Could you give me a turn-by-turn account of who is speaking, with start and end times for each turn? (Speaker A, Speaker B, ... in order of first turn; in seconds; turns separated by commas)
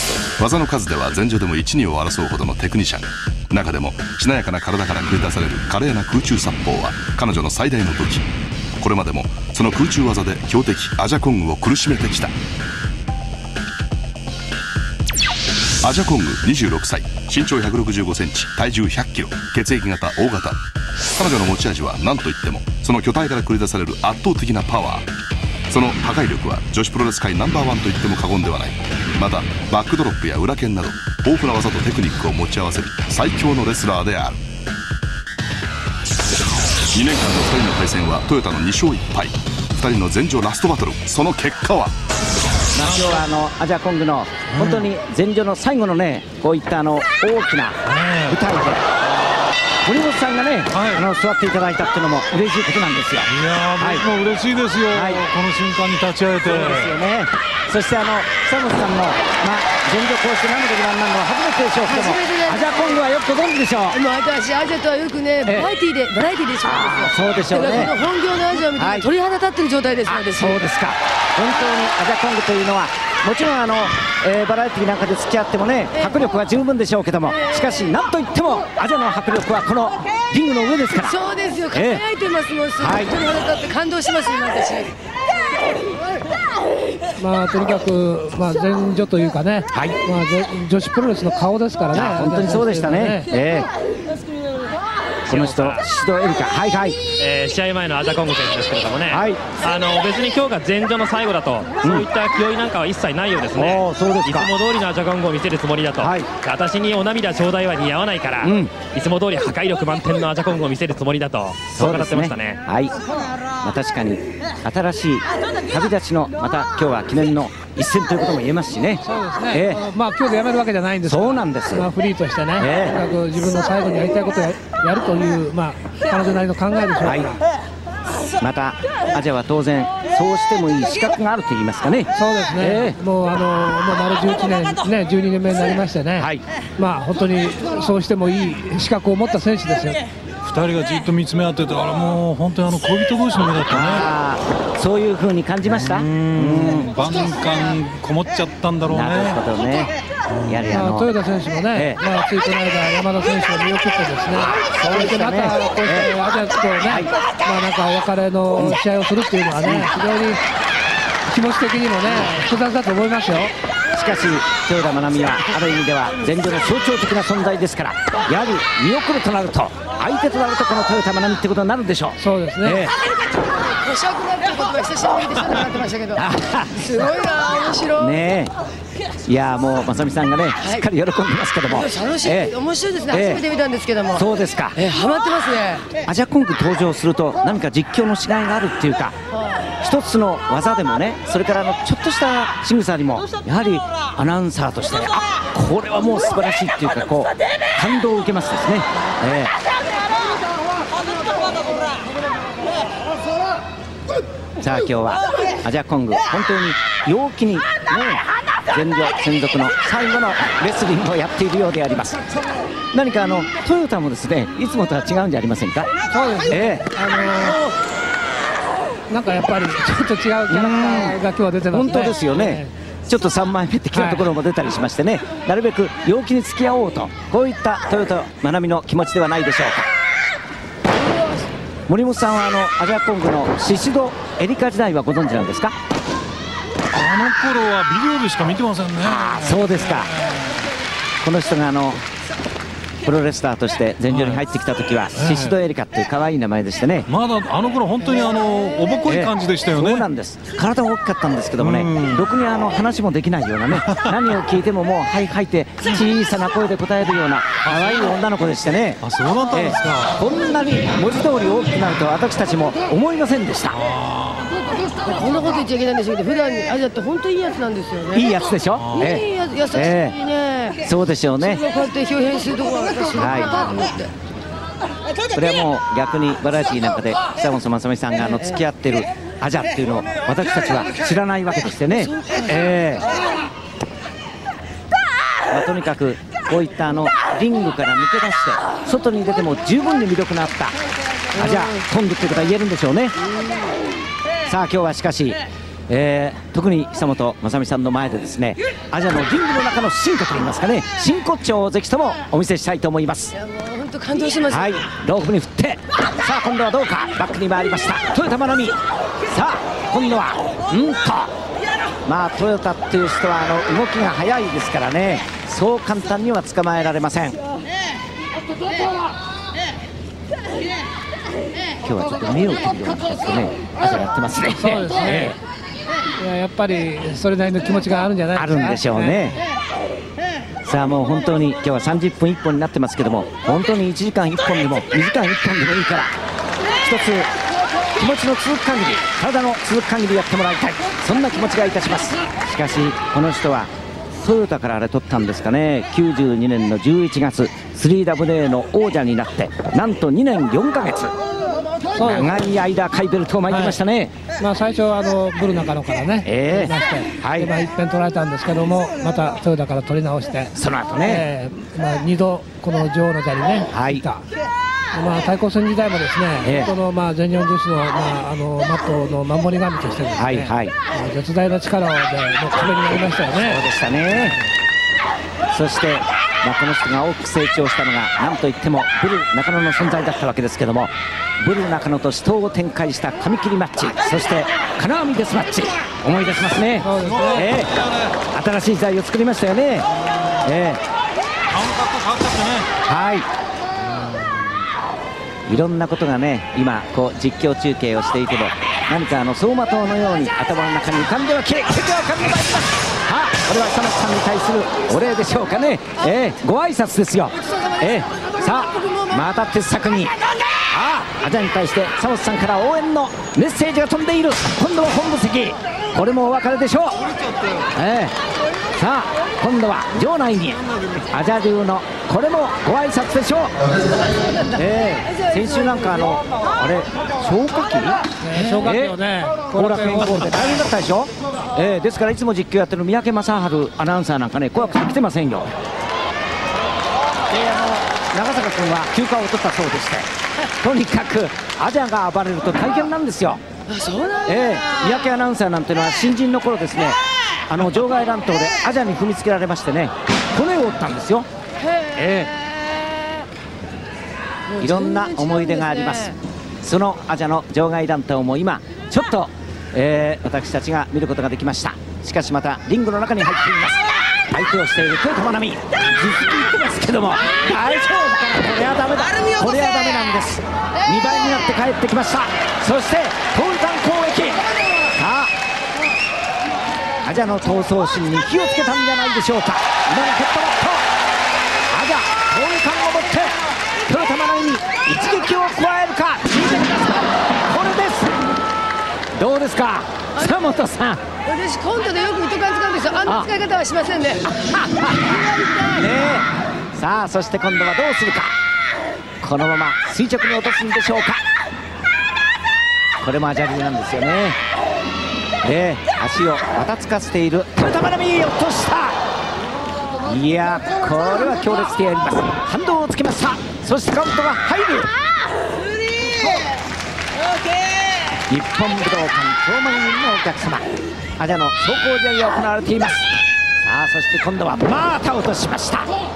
Speaker A: 0.4-8.3, Speaker A: 8.8-12.3, Speaker A: 15.8-20.6, Speaker A: 21.1-25.1, Speaker A: 25.7-34.4, Speaker A: 36.9-41.9, Speaker B: 42.8-48.9, Speaker C: 42.8-43.2, Speaker C: 44.5-44.9, Speaker C: 47.9-48.4, Speaker B: 49.8-54.0, Speaker C: 50.7-51.1, Speaker C: 53.3-56.9, Speaker B: 54.9-55.2, Speaker B: 56.5-64.0, Speaker D: 61.9-63.0, Speaker D: 63.9-70.6, Speaker B: 65.5-65.7, Speaker B: 66.6-68.0, Speaker B: 68.7-69.1, Speaker B: 70.1-81.2, Speaker D: 77.3-77.9, Speaker D: 81.1-84.9, Speaker B: 81.7-82.0, Speaker B: 82.8-83.2, Speaker E: 87.2-93.3, Speaker B: 91.9-93.7, Speaker F: 95.3-95.8, Speaker B: 95.3-97.0, Speaker F: 97.2-112.6, Speaker B: 99.1-99.4, Speaker B: 103.5-104.5, Speaker B: 106.0-106.3, Speaker B: 108.4-108.7, Speaker B: 111.7-113.0, Speaker B: 113.6-119.8, Speaker E: 119.0-127.4, Speaker B: 121.0-121.9, Speaker B: 122.6-123.0, Speaker B: 127.0-127.3, Speaker B: 128.4-133.0, Speaker E: 132.2-140.0, Speaker B: 136.2-136.4, Speaker C: 140.4-144.1, Speaker B: 143.7-146.9, Speaker C: 145.7-149.4, Speaker B: 148.9-149.9, Speaker C: 150.3-150.6, Speaker B: 150.5-151.1, Speaker E: 150.7-160.4, Speaker B: 151.7-152.0, Speaker B: 154.4-156.1, Speaker B: 156.9-157.1, Speaker B: 159.6-159.9, Speaker E: 161.3-163.5, Speaker B: 162.1-162.3, Speaker B: 163.9-173.0, Speaker E: 172.2-172.9, Speaker D: 173.2-176.2, Speaker B: 176.2-176.8, Speaker D: 176.8-178.1, Speaker B: 178.0-178.5, Speaker B: 179.3-182.5, Speaker D: 181.7-184.2, Speaker B: 183.1-183.4, Speaker B: 184.1-184.8, Speaker D: 184.8-185.9, Speaker B: 186.0-189.2, Speaker D: 189.3-189.7, Speaker B: 189.8-199.5, Speaker B: 204.6-212.2, Speaker B: 212.9-215.9, Speaker E: 216.1-217.7, Speaker B: 216.5-216.9, Speaker E: 219.1-222.7, Speaker B: 220.5-229.9, Speaker E: 223.9-224.2, Speaker B: 231.9-235.7, Speaker C: 236.9-239.6, Speaker B: 239.0-240.1, Speaker B: 241.2-242.1, Speaker B: 243.0-247.1, Speaker C: 244.1-244.4, Speaker C: 245.2-245.6, Speaker C: 247.1-250.1, Speaker B: 249.1-263.8, Speaker C: 251.6-252.2, Speaker C: 257.6-258.1, Speaker C: 259.0-260.1, Speaker C: 263.8-264.6, Speaker D: 265.0-268.3, Speaker B: 268.1-270.2, Speaker C: 268.8-269.1, Speaker D: 269.0-270.8, Speaker B: 270.8-271.6, Speaker D: 271.4-274.1, Speaker B: 273.2-273.7, Speaker B: 275.3-283.1, Speaker D: 282.0-282.6, Speaker B: 285.5-290.8, Speaker B: 291.3-293.2, Speaker D: 291.4-291.7, Speaker D: 293.3-293.7, Speaker B: 294.5-303.3, Speaker D: 303.4-304.7, Speaker B: 304.5-311.3, Speaker B: 312.1-317.4, Speaker B: 321.8-325.4, Speaker E: 324.6-325.3, Speaker E: 326.2-329.4, Speaker B: 328.3-329.4, Speaker B: 330.6-336.1, Speaker B: 336.8-337.3, Speaker B: 337.9-351.1, Speaker E: 351.9-352.3, Speaker B: 352.0-354.1, Speaker E: 353.5-353.8, Speaker E: 354.4-360.5, Speaker B: 356.2-357.6, Speaker B: 360.6-361.3, Speaker E: 361.1-364.2, Speaker B: 363.7-364.1, Speaker E: 364.9-373.6, Speaker B: 366.4-366.7, Speaker B: 370.2-370.7, Speaker B: 373.3-374.4, Speaker B: 375.5-387.7, Speaker E: 386.8-387.5, Speaker C: 387.0-388.2, Speaker B: 388.3-389.9, Speaker B: 390.4-390.8, Speaker C: 391.5-392.7, Speaker B: 392.9-393.3, Speaker B: 395.5-410.1, Speaker D: 407.5-409.1, Speaker B: 410.7-417.1, Speaker C: 417.2-417.7, Speaker B: 417.8-418.1, Speaker B: 418.7-423.6, Speaker C: 420.8-421.0, Speaker B: 424.5-428.0, Speaker E: 428.2-430.3, Speaker B: 428.6-429.0, Speaker B: 429.5-435.5, Speaker B: 437.3-443.4, Speaker D: 443.7-444.8, Speaker B: 444.2-451.3, Speaker B: 451.9-452.3, Speaker D: 454.5-456.2, Speaker B: 454.6-475.3, Speaker B: 477.0-480.9, Speaker B: 481.7-488.3, Speaker B: 489.2-491.0, Speaker D: 491.2-494.3, Speaker B: 493.1-493.3, Speaker B: 494.3-495.2, Speaker D: 495.2-495.8, Speaker B: 495.7-498.4, Speaker B: 499.2-501.2, Speaker B: 503.0-504.4, Speaker B: 505.4-509.0, Speaker B: 510.0-514.9, Speaker B: 518.3-520.7, Speaker B: 521.2-523.1, Speaker B: 523.6-525.9